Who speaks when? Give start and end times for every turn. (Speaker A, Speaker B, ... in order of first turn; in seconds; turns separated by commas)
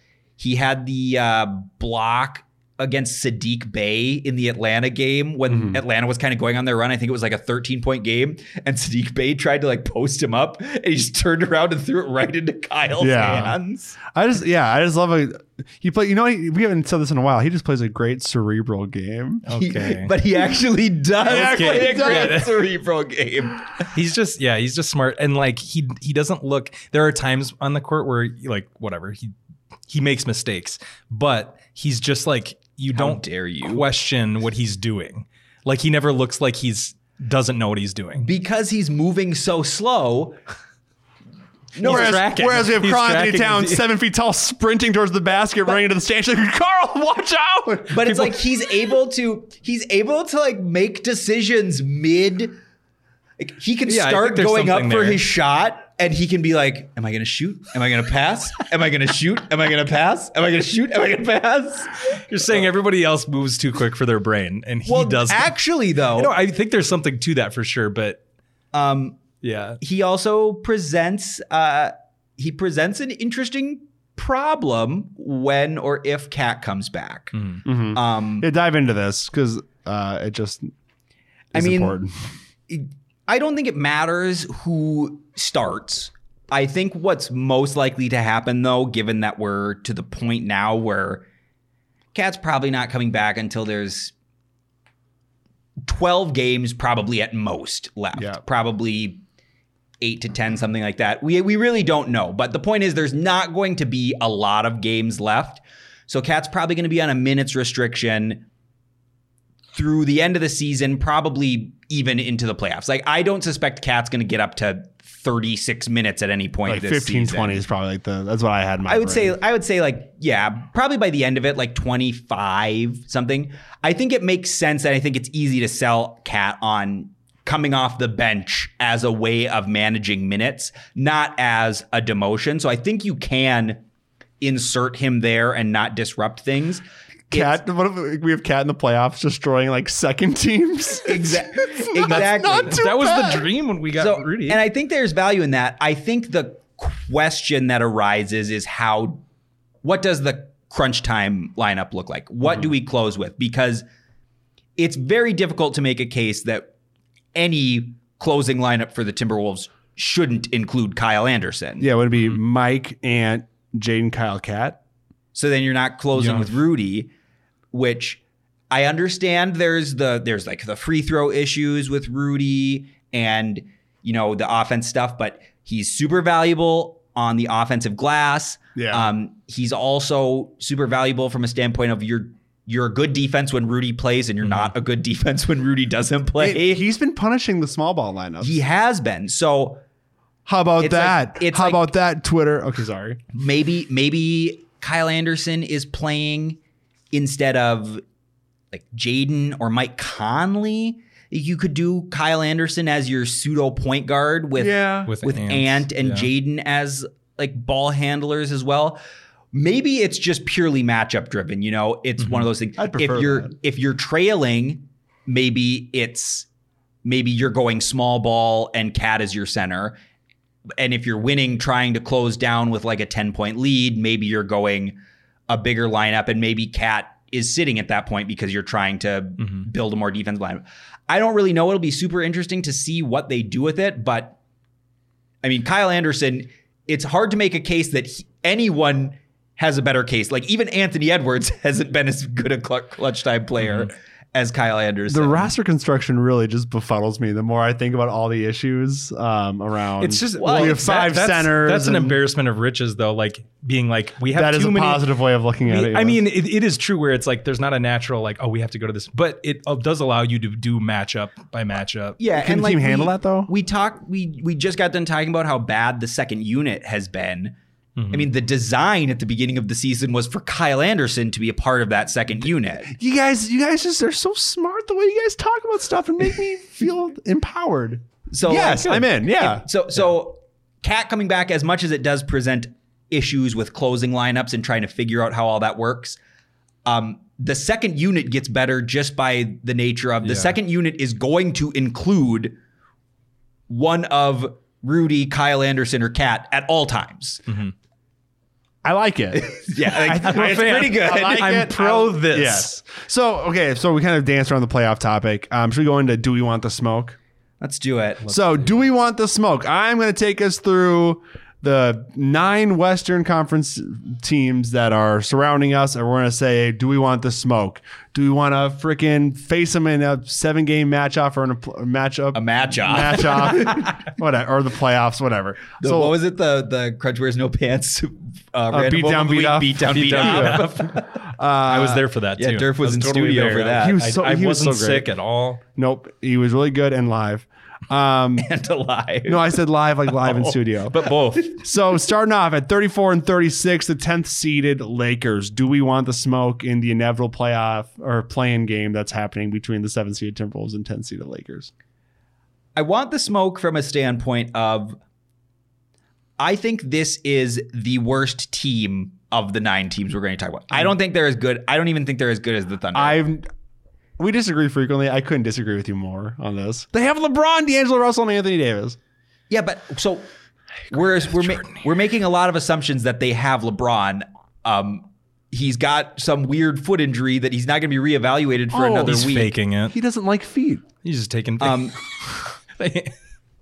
Speaker A: 0.4-14.0, Speaker B: 5.5-5.8, Speaker B: 13.0-19.5, Speaker C: 19.5-20.1, Speaker A: 19.5-23.9, Speaker B: 21.2-22.4, Speaker C: 21.3-22.6, Speaker C: 23.9-29.3, Speaker C: 29.9-38.3, Speaker A: 32.9-33.9, Speaker A: 38.2-40.4, Speaker A: 41.7-42.3, Speaker C: 41.8-43.9, Speaker B: 41.8-48.1, Speaker A: 47.9-52.6, Speaker C: 48.1-48.4, Speaker A: 53.4-62.2, Speaker C: 53.9-55.3, Speaker C: 62.3-65.6, Speaker A: 64.9-66.3, Speaker C: 66.2-68.2, Speaker A: 68.7-69.2, Speaker C: 69.4-69.8, Speaker A: 69.8-77.3, Speaker C: 77.3-77.6, Speaker B: 77.7-80.7, Speaker A: 77.9-78.5, Speaker B: 81.5-82.3, Speaker A: 81.5-82.0, Speaker A: 82.7-91.2, Speaker A: 92.1-94.1, Speaker A: 95.8-99.2, Speaker B: 98.2-98.4, Speaker A: 100.0-108.5, Speaker A: 109.7-117.6, Speaker B: 116.7-119.4, Speaker A: 118.9-133.8, Speaker A: 134.4-137.6, Speaker B: 137.3-143.5, Speaker A: 141.1-142.8, Speaker C: 142.2-144.6, Speaker A: 144.0-149.2, Speaker A: 149.8-153.8, Speaker A: 154.8-156.7, Speaker A: 157.3-161.9, Speaker B: 161.8-164.8, Speaker A: 165.3-167.1, Speaker C: 166.2-166.5, Speaker A: 167.7-186.8, Speaker B: 178.8-179.1, Speaker C: 184.4-184.7, Speaker B: 186.4-188.6, Speaker A: 188.4-189.8, Speaker B: 190.5-193.2, Speaker A: 190.8-191.9, Speaker A: 193.3-196.6, Speaker A: 197.1-198.0, Speaker A: 198.7-209.0, Speaker B: 204.6-205.1, Speaker C: 205.1-206.3, Speaker A: 209.5-216.5, Speaker C: 212.2-212.5, Speaker B: 212.8-213.5, Speaker A: 217.1-220.0, Speaker A: 220.8-225.0, Speaker A: 225.5-234.4, Speaker A: 235.4-245.5, Speaker C: 243.6-243.9, Speaker B: 245.1-252.2, Speaker C: 250.0-255.1, Speaker A: 250.4-250.9, Speaker B: 254.3-256.2, Speaker C: 255.7-262.2, Speaker A: 262.2-267.6, Speaker B: 262.4-263.5, Speaker C: 268.0-268.3, Speaker A: 268.1-272.9, Speaker B: 272.9-279.6, Speaker A: 278.3-286.2, Speaker C: 278.6-279.1, Speaker A: 286.9-292.6, Speaker C: 290.2-290.6, Speaker A: 293.7-297.5, Speaker B: 298.8-307.2, Speaker A: 299.3-301.6, Speaker C: 299.9-302.8, Speaker A: 307.6-308.3, Speaker B: 308.3-326.2, Speaker C: 308.3-308.6, Speaker A: 322.3-324.1, Speaker A: 325.8-331.2, Speaker B: 328.7-330.7, Speaker C: 329.9-330.9, Speaker B: 331.2-332.1, Speaker C: 331.6-335.6, Speaker A: 332.4-334.0, Speaker B: 333.8-335.1, Speaker B: 335.8-338.5, Speaker A: 338.4-339.5, Speaker B: 339.3-351.7, Speaker C: 340.3-341.5, Speaker A: 352.8-355.0, Speaker A: 356.4-363.2, Speaker B: 362.9-363.5, Speaker B: 364.2-369.0, Speaker A: 369.5-370.3, Speaker A: 370.9-379.5, Speaker C: 371.4-371.8, Speaker B: 378.7-379.3, Speaker C: 379.1-380.0, Speaker B: 379.9-380.9, Speaker C: 381.0-383.1, Speaker A: 381.6-381.9